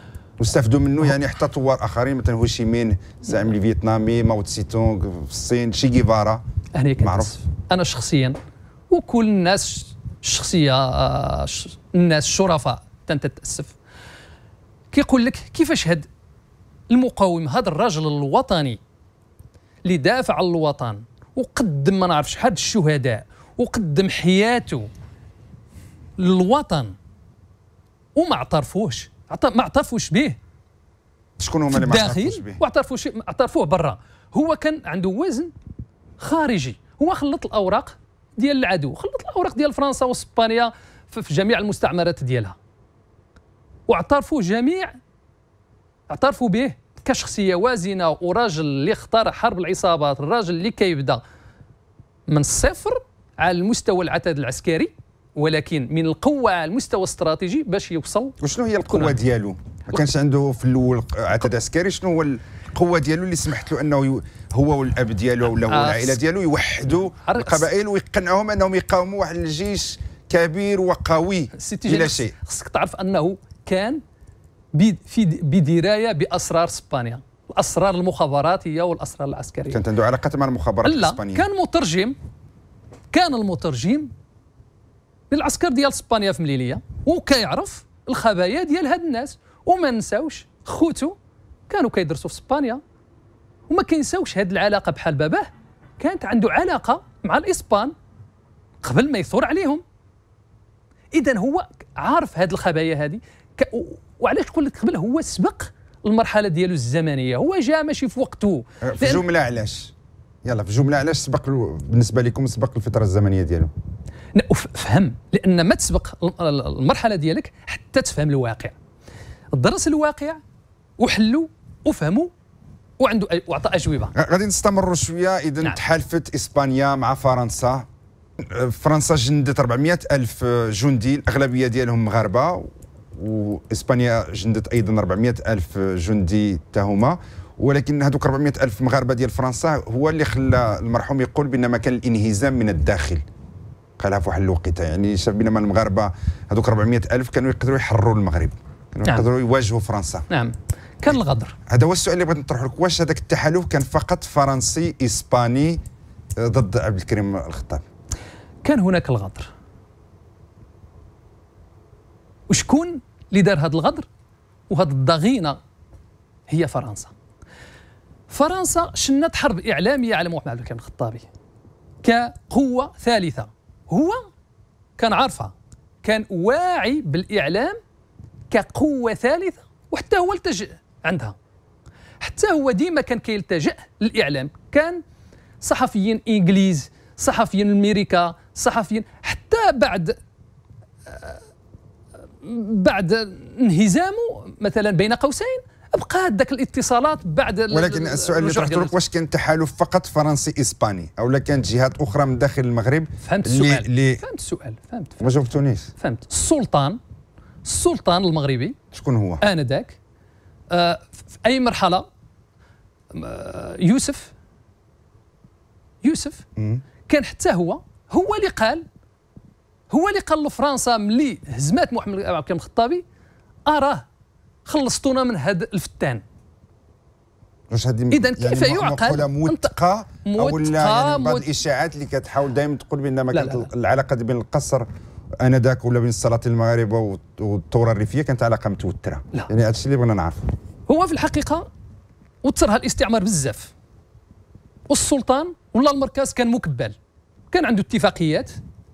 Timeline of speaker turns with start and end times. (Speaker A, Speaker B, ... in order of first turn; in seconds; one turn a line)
Speaker A: 0.4-6.4
Speaker B: 6.8-8.4
Speaker A: 7.0-7.3
Speaker B: 8.9-13.8
Speaker B: 14.9-16.1
Speaker B: 16.9-18.8
Speaker B: 19.9-24.9
Speaker B: 26.2-26.9
Speaker B: 28.1-30.4
Speaker A: 31.4-32.6
Speaker B: 31.7-35.5
Speaker B: 36.2-42.6
Speaker B: 43.9-45.0
Speaker B: 46.1-51.2
Speaker B: 52.3-58.4
Speaker A: 58.4-72.3
Speaker B: 58.9-59.2
Speaker B: 65.7-66.2
Speaker B: 67.2-67.7
Speaker B: 71.5-74.0
Speaker B: 74.7-79.8
Speaker A: 79.7-81.5
Speaker B: 80.8-82.2
Speaker B: 83.1-84.1
Speaker B: 85.3-91.2
Speaker B: 91.7-92.8
Speaker B: 93.7-95.5
Speaker B: 96.0-97.9
Speaker B: 98.8-99.8
Speaker B: 101.1-109.2
Speaker A: 108.8-109.9
Speaker A: 110.4-113.7
Speaker B: 114.3-118.8
Speaker B: 119.5-120.4
Speaker B: 121.0-122.3
Speaker B: 123.0-124.1
Speaker A: 124.1-127.9
Speaker A: 128.4-143.2
Speaker A: 144.0-150.2
Speaker B: 150.3-151.6
Speaker A: 151.7-155.8
Speaker A: 156.4-157.8
Speaker B: 158.6-159.5
Speaker B: 162.5-164.1
Speaker B: 164.7-165.6
Speaker B: 166.5-167.1
Speaker B: 168.3-171.3
Speaker B: 172.0-174.3
Speaker B: 175.0-177.8
Speaker B: 178.5-181.3
Speaker B: 182.2-185.0
Speaker B: 185.6-190.2
Speaker B: 191.1-191.4
Speaker B: 192.4-198.9
Speaker A: 197.7-204.2
Speaker B: 203.2-205.3
Speaker A: 205.2-205.9
Speaker B: 206.0-207.0
Speaker B: 207.7-208.8
Speaker A: 208.9-209.4
Speaker B: 209.4-210.0
Speaker B: 210.7-212.1
Speaker B: 213.1-214.3
Speaker B: 216.0-216.4
Speaker A: 216.6-216.8
Speaker B: 217.1-218.8
Speaker B: 219.9-223.0
Speaker B: 223.7-224.1
Speaker B: 224.7-226.2
Speaker A: 227.7-234.9
Speaker B: 228.1-229.7
Speaker B: 230.2-231.5
Speaker B: 233.3-233.7
Speaker A: 235.4-240.4
Speaker B: 240.9-241.7
Speaker B: 242.4-243.7
Speaker B: 244.9-247.0
Speaker B: 247.5-248.6